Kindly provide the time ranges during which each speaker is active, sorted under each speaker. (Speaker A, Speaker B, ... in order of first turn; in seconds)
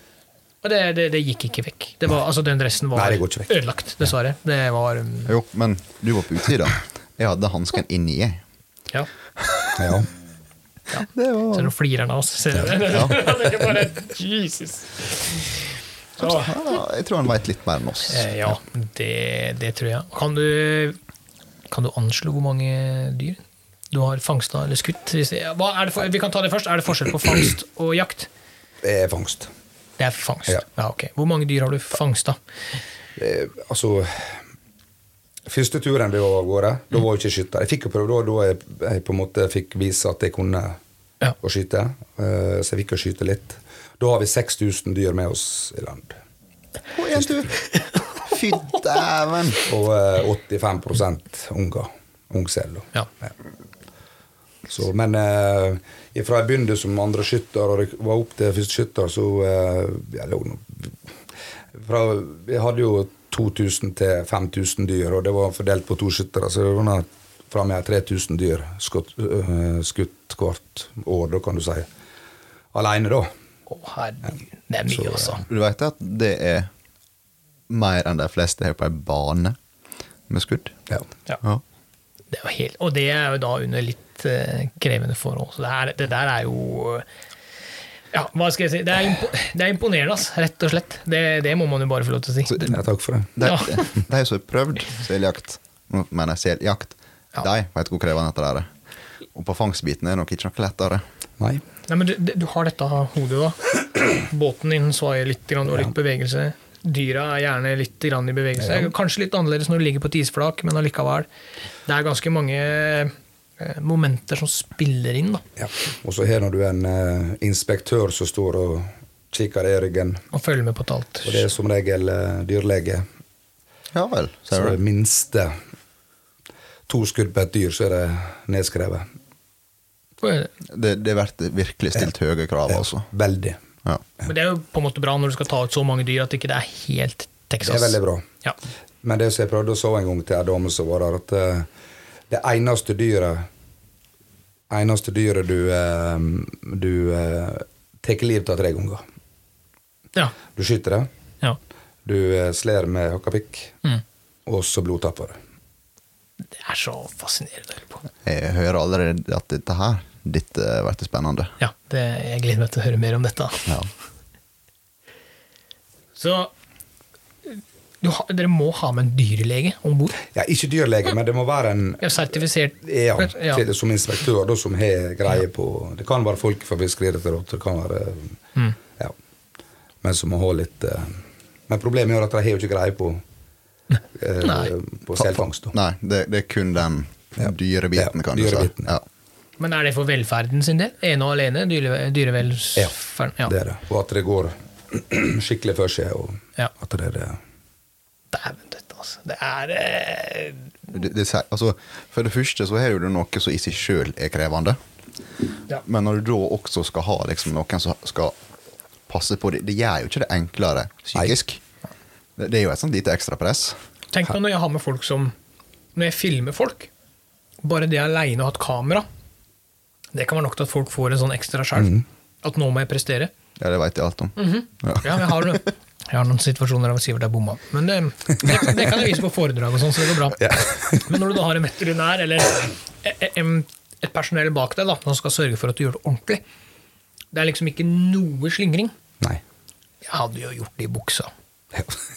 Speaker A: 0.6-5.3, 10.9-15.6, 16.2-16.5, 18.1-21.0, 21.7-23.4, 23.9-28.3, 30.0-32.4, 73.7-75.4, 82.3-87.0, 88.1-92.8, 101.9-111.3, 111.8-115.4, 120.3-121.4, 130.2-130.5, 134.2-138.6, 156.5-158.0, 161.6-163.7, 166.2-166.5, 167.5-170.2, 172.0-173.6, 184.4-184.7, 189.6-193.5, 198.3-200.7, 214.1-215.3, 215.9-216.9, 217.6-219.0, 220.1-223.3, 224.4-236.4, 237.3-238.9, 240.0-241.3
Speaker B: 2.9-3.5, 9.8-10.1, 28.8-29.5, 33.1-34.4, 35.5-40.8, 41.4-46.2, 49.7-53.3, 54.7-61.0, 61.7-71.9, 72.7-73.3, 74.9-75.4, 92.6-93.3, 108.6-108.9, 115.6-120.2, 121.2-123.0, 124.5-125.5, 126.9-129.1, 132.7-133.6, 137.6-138.2, 139.0-141.7, 142.3-143.5, 144.7-149.0, 150.5-151.1, 152.0-153.8, 154.4-155.4, 170.2-172.2, 172.8-178.4, 180.0-183.2, 184.1-185.7, 187.4-188.9, 193.4-197.4, 230.4-231.1
Speaker C: 5.3-8.4, 9.4-9.9, 11.1-11.7, 12.9-13.2, 16.2-18.3, 46.9-47.6, 48.2-49.6, 75.5-76.7, 77.7-79.6, 80.3-80.8, 93.3-98.7, 99.3-101.0, 123.9-124.8, 130.7-133.1, 158.2-161.5, 185.2-189.0, 200.9-204.8, 205.8-208.3, 209.1-211.6, 212.4-213.8, 223.6-225.6